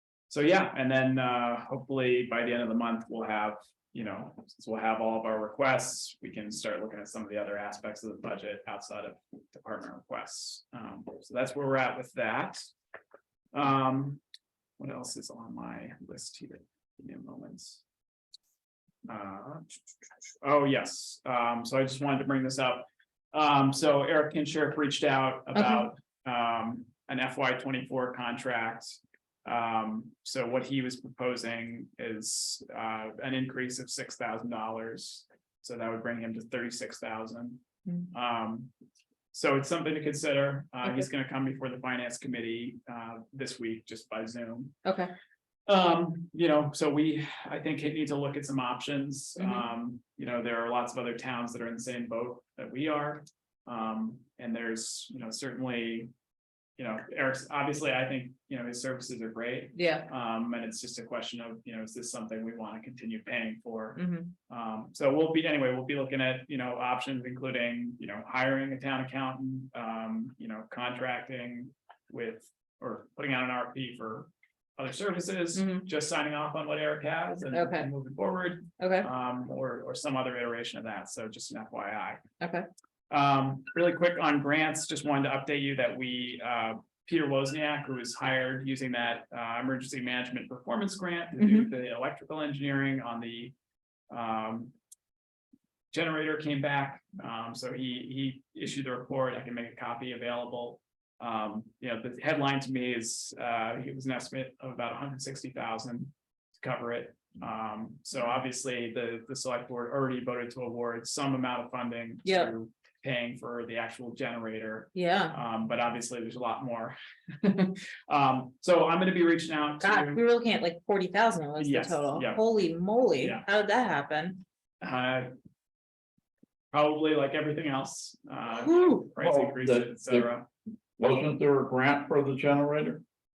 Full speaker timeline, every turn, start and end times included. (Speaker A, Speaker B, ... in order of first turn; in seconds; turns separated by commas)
Speaker A: 0.3-12.6, Speaker A: 13.5-14.2, Speaker A: 14.8-17.8, Speaker A: 19.0-19.6, Speaker A: 20.4-38.7, Speaker B: 25.5-25.8, Speaker A: 39.3-44.7, Speaker B: 44.8-45.1, Speaker A: 45.7-56.1, Speaker B: 49.4-49.6, Speaker A: 56.8-82.2, Speaker B: 59.7-60.1, Speaker B: 64.0-64.3, Speaker B: 75.5-75.9, Speaker B: 77.5-77.9, Speaker B: 78.8-79.1, Speaker B: 82.4-82.7, Speaker A: 83.1-93.5, Speaker B: 91.4-91.7, Speaker A: 94.1-94.7, Speaker A: 95.9-120.2, Speaker B: 112.2-112.5, Speaker B: 114.9-115.3, Speaker B: 119.8-124.4, Speaker A: 121.6-122.4, Speaker A: 123.2-123.4, Speaker A: 124.8-125.3, Speaker A: 126.7-130.5, Speaker B: 128.6-129.0, Speaker C: 129.2-130.3, Speaker C: 131.0-133.0